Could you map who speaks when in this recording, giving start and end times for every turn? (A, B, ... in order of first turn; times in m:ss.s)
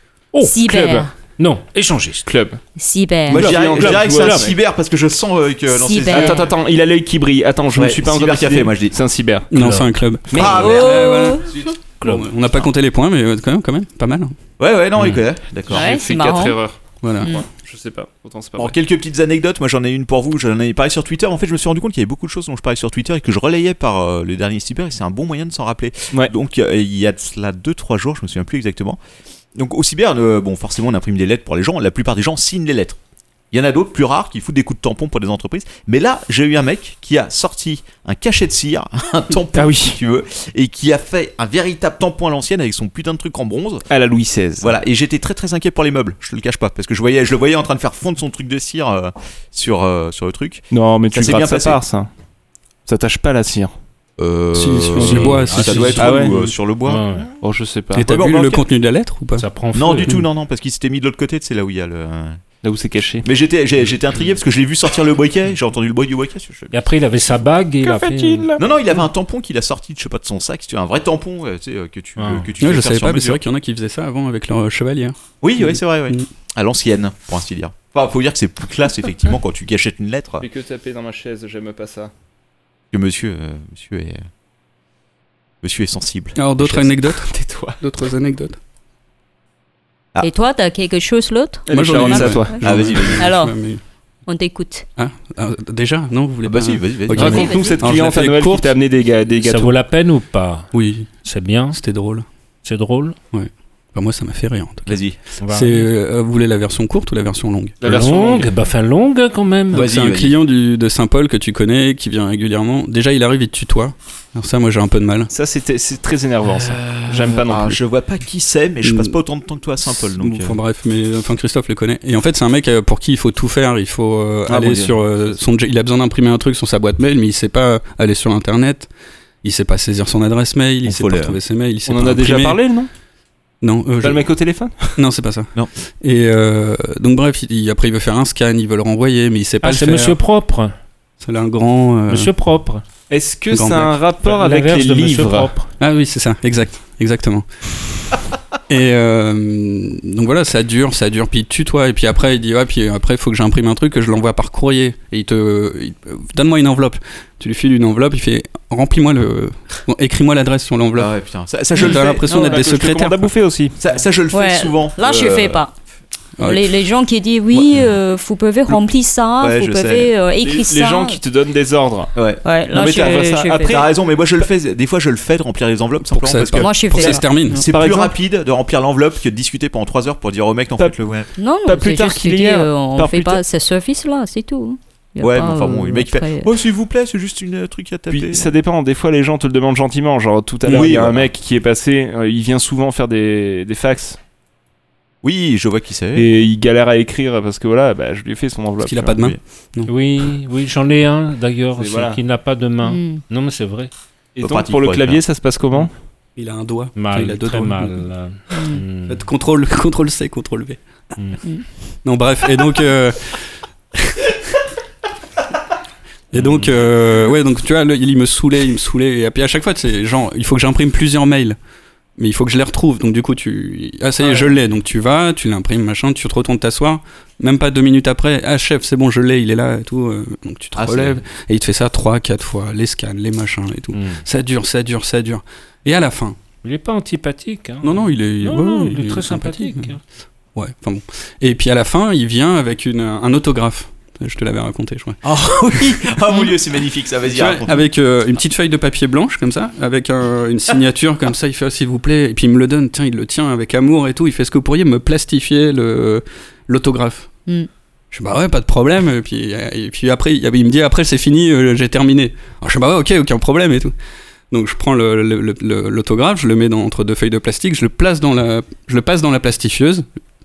0:00.4-0:01.1 A
0:00.7-0:01.0 B
0:01.4-0:02.3 C
0:02.3-0:02.6 B
0:02.8-0:03.4 A
0:03.3-0:06.5 D
0:03.3-0:04.6 B
0:03.3-0:04.5 C
0:05.7-0:06.5 A
0:06.1-0:09.5 B
0:07.7-0:09.0 D
0:09.5-0:14.3 E
0:09.6-0:09.9 C
0:10.3-0:10.8 B
0:10.3-0:10.9 D
0:10.4-0:11.5 A
0:11.5-0:11.7 D
0:12.0-0:12.3 C
0:14.6-0:15.9 D
0:15.7-0:18.7 B
0:15.7-0:16.6 A
0:17.0-0:17.3 E
0:18.6-0:29.0 D
0:29.6-0:33.0 D
0:33.5-0:43.8 D
0:39.5-0:40.0 B
0:43.9-0:44.8 B
0:44.6-0:51.8 D
0:50.7-0:52.1 B
0:52.9-0:53.7 B
0:54.2-0:57.0 D
0:54.5-0:56.5 E
0:55.0-0:55.3 B
0:55.0-0:56.3 C
0:56.0-0:56.3 B
0:56.8-0:57.3 C
0:57.4-0:58.0 B
0:57.9-0:59.4 E
0:58.0-0:58.6 D
0:59.4-1:00.1 C
0:59.7-1:02.4 D
1:02.6-1:03.3 B
1:03.2-1:06.8 D
1:06.7-1:08.6 C
1:07.8-1:08.6 B
1:08.6-1:13.4 D
1:12.2-1:12.5 C
1:12.6-1:16.3 E
1:15.4-1:20.4 D
1:20.4-1:22.1 B
1:22.9-1:24.2 D
1:25.6-1:26.8 D
1:26.4-1:28.6 E
1:27.2-1:27.8 B
1:30.2-1:33.6 A
1:31.7-1:32.6 B
1:31.7-1:33.8 E
1:32.6-1:33.3 D
1:34.3-1:34.9 A
1:35.0-1:38.8 E
1:36.4-1:37.7 D
1:37.1-1:39.8 B
1:37.2-1:37.8 A
1:39.4-1:41.8 C
1:40.7-1:41.1 E
1:41.7-1:42.2 E
1:42.6-1:43.2 C
1:43.3-1:47.8 E
1:44.9-1:45.2 D
1:45.4-1:45.8 C
1:47.8-1:48.5 B
1:47.8-1:49.9 C
1:49.7-1:55.3 E
1:49.7-1:50.3 D
1:55.3-1:57.8 B
1:56.5-2:00.6 D
1:58.8-1:59.2 E
1:59.8-2:08.9 E
2:04.5-2:05.4 D
2:09.4-2:12.6 E
2:10.9-2:11.4 D
2:11.9-2:12.9 B
2:13.6-2:14.3 E
2:14.0-2:14.9 B
2:14.9-2:20.2 E
2:19.6-2:20.7 C
2:21.2-2:22.3 E
2:22.1-2:22.8 C
2:23.1-2:25.5 B
2:23.5-2:24.0 E
2:24.2-2:25.7 C
2:25.8-2:27.5 E
2:28.7-2:41.1 E
2:41.0-2:42.6 D
2:41.7-2:43.3 E
2:41.8-2:43.8 B
2:43.8-2:45.6 D
2:44.3-2:45.7 A
2:46.4-2:46.6 E
2:46.4-2:51.2 A
2:47.5-2:47.9 D
2:49.4-2:50.1 D
2:50.4-2:52.1 B
2:52.1-3:01.3 D
2:52.4-2:53.8 A
2:52.7-2:53.9 B
2:56.1-2:57.6 E
2:56.6-2:57.6 A
2:57.7-2:58.1 B
3:01.4-3:06.5 A
3:01.7-3:03.4 B
3:05.2-3:08.5 D
3:08.1-3:14.2 B
3:10.6-3:11.3 D
3:15.2-3:16.3 D
3:16.1-3:19.2 B
3:18.8-3:19.9 E
3:19.9-3:23.9 C
3:21.8-3:22.2 B
3:22.8-3:23.2 A
3:24.4-3:25.9 B
3:24.4-3:25.2 D
3:26.4-3:28.0 E
3:27.0-3:29.2 C
3:28.5-3:28.8 A
3:29.1-3:30.8 E
3:32.0-3:33.4 E
3:33.9-3:34.4 E
3:36.3-3:41.6 E
3:42.2-3:56.4 E
3:50.8-3:51.2 D
3:53.9-3:54.2 C
3:56.6-4:00.0 C
3:57.8-3:59.9 E
4:00.6-4:05.2 E
4:05.2-4:07.8 D
4:05.7-4:06.0 E
4:07.3-4:17.3 E
4:18.1-4:23.9 E
4:24.5-4:30.0 E